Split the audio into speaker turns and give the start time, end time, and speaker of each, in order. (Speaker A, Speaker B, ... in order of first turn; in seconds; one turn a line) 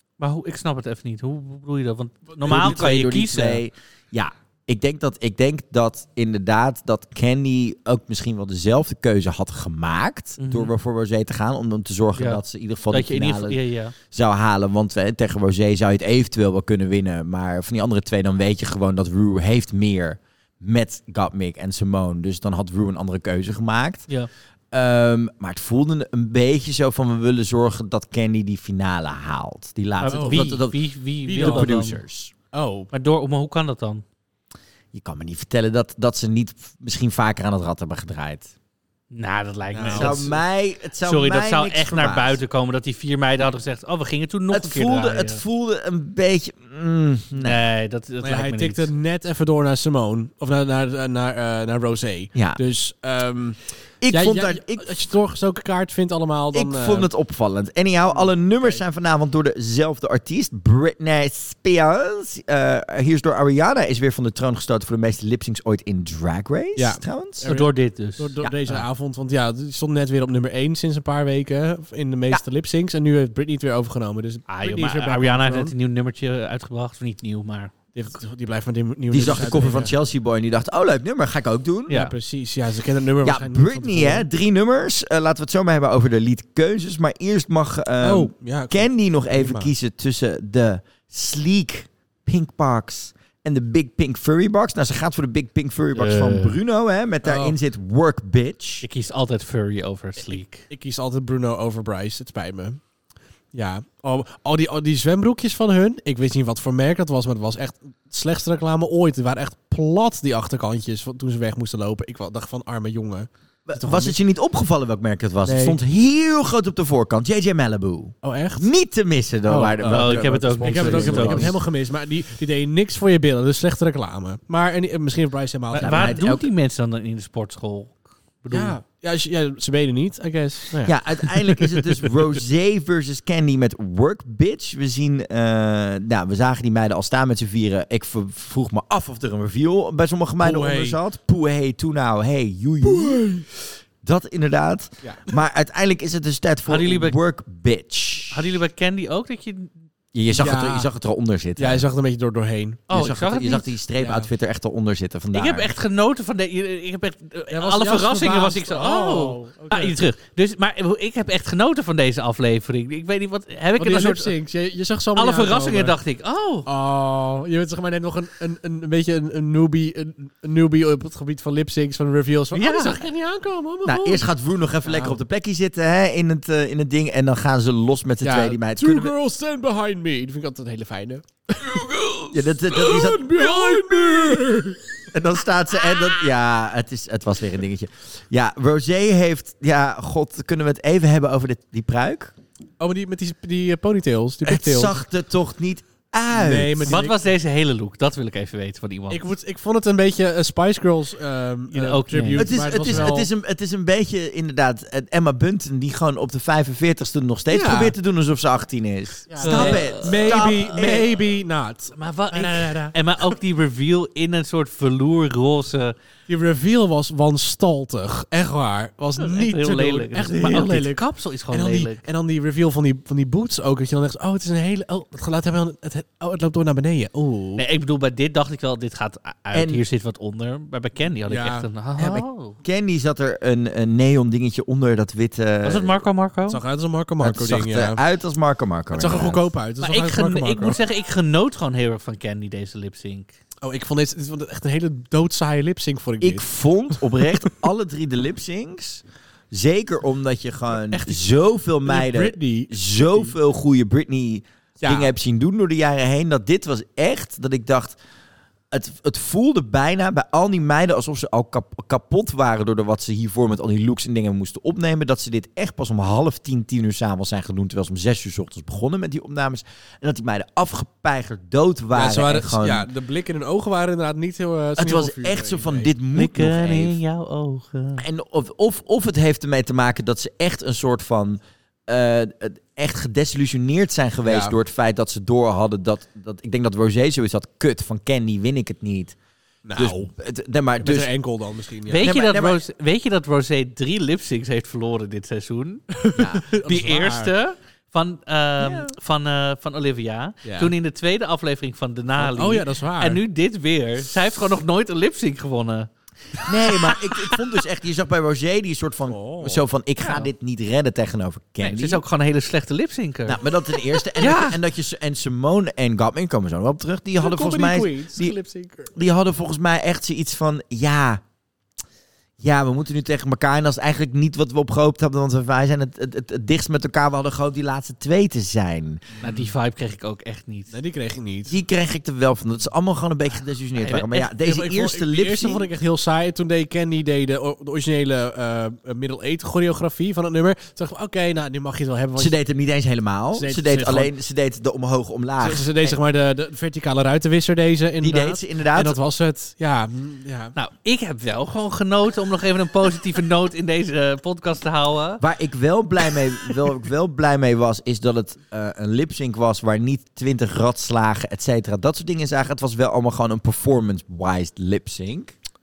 Speaker A: 0.2-3.6
Speaker B: 2.5-13.6
Speaker A: 10.4-10.7
Speaker A: 12.2-13.9
Speaker B: 14.1-24.1
Speaker B: 24.7-30.8
Speaker A: 30.0-32.0
Speaker C: 30.1-30.6
Speaker C: 31.2-31.7
Speaker B: 31.4-32.3
Speaker C: 32.5-32.9
Speaker A: 32.9-34.0
Speaker B: 34.9-38.5
Speaker A: 39.1-40.4
Speaker C: 39.7-40.3
Speaker B: 39.9-42.4
Speaker A: 41.0-45.4
Speaker B: 44.5-47.6
Speaker A: 47.4-48.9
Speaker C: 48.2-57.1
Speaker B: 52.4-52.6
Speaker B: 54.0-55.0
Speaker B: 56.5-67.5
Speaker C: 58.1-58.8
Speaker C: 66.8-75.7
Speaker A: 67.4-68.4
Speaker B: 68.4-68.8
Speaker A: 74.5-77.7
Speaker C: 77.9-79.9
Speaker B: 79.1-82.0
Speaker A: 81.9-82.1
Speaker C: 81.9-84.3
Speaker B: 83.2-98.9
Speaker C: 88.0-89.7
Speaker A: 95.9-96.6
Speaker C: 97.2-97.6
Speaker A: 98.8-100.7
Speaker C: 100.7-102.8
Speaker C: 103.5-114.2
Speaker B: 113.7-121.5
Speaker C: 115.4-115.8
Speaker C: 118.2-118.7
Speaker C: 119.5-126.2
Speaker A: 119.9-121.5
Speaker A: 125.7-128.8
Speaker B: 125.8-126.5
Speaker C: 128.5-131.0
Speaker B: 130.9-143.4
Speaker C: 140.4-141.0
Speaker C: 142.8-143.5
Speaker B: 144.0-148.4
Speaker C: 145.0-145.3
Speaker A: 146.7-147.2
Speaker A: 148.3-149.7
Speaker B: 150.1-151.8
Speaker C: 150.4-150.9
Speaker C: 151.6-152.8
Speaker A: 152.9-153.7
Speaker B: 152.9-155.7
Speaker C: 154.0-154.3
Speaker A: 155.3-164.3
Speaker C: 157.5-160.0
Speaker C: 163.8-165.9
Speaker A: 165.2-166.7
Speaker C: 166.7-174.3
Speaker A: 172.5-173.0
Speaker B: 173.8-179.1
Speaker C: 174.8-175.2
Speaker C: 178.2-185.0
Speaker B: 182.3-183.3
Speaker B: 185.1-192.3
Speaker C: 192.8-195.0
Speaker B: 194.4-197.0
Speaker C: 196.3-197.2
Speaker A: 196.9-199.2
Speaker C: 199.1-203.3
Speaker A: 201.7-203.1
Speaker B: 202.3-211.1
Speaker C: 207.5-207.9
Speaker C: 209.3-213.0
Speaker A: 209.4-210.9
Speaker A: 211.9-215.9
Speaker C: 216.3-227.6
Speaker A: 219.2-222.0
Speaker A: 227.6-232.6
Speaker B: 229.5-229.8
Speaker C: 231.3-231.7
Speaker B: 232.0-236.0
Speaker A: 235.6-236.6
Speaker C: 236.5-238.0
Speaker B: 237.2-239.4
Speaker C: 238.9-240.8
Speaker A: 239.8-243.3
Speaker C: 243.6-246.5
Speaker B: 246.2-258.0
Speaker C: 250.8-251.2
Speaker C: 251.8-253.3
Speaker C: 254.8-255.1
Speaker B: 258.7-272.9
Speaker C: 271.9-275.9
Speaker B: 274.8-277.0
Speaker A: 276.1-278.0
Speaker B: 278.0-289.2
Speaker C: 284.2-284.6
Speaker C: 289.6-290.1
Speaker B: 289.8-291.1
Speaker C: 290.8-292.2
Speaker A: 291.9-296.0
Speaker B: 292.0-292.6
Speaker C: 295.9-297.3
Speaker B: 296.2-296.4
Speaker A: 296.5-305.9
Speaker B: 298.6-298.9
Speaker C: 300.4-300.7
Speaker C: 302.2-303.2
Speaker B: 306.4-312.0
Speaker A: 306.9-307.1
Speaker C: 309.1-309.6
Speaker A: 311.6-313.4
Speaker B: 313.3-318.4
Speaker A: 314.2-314.6
Speaker C: 317.2-318.9
Speaker B: 318.9-321.2
Speaker B: 322.4-329.1
Speaker C: 329.2-329.5
Speaker A: 329.2-330.8
Speaker C: 330.7-331.6
Speaker B: 331.5-335.7
Speaker A: 333.8-334.2
Speaker C: 334.4-342.4
Speaker B: 342.2-345.9
Speaker C: 343.3-344.1
Speaker C: 345.4-350.6
Speaker B: 348.0-349.0
Speaker A: 350.6-355.2
Speaker B: 355.2-365.3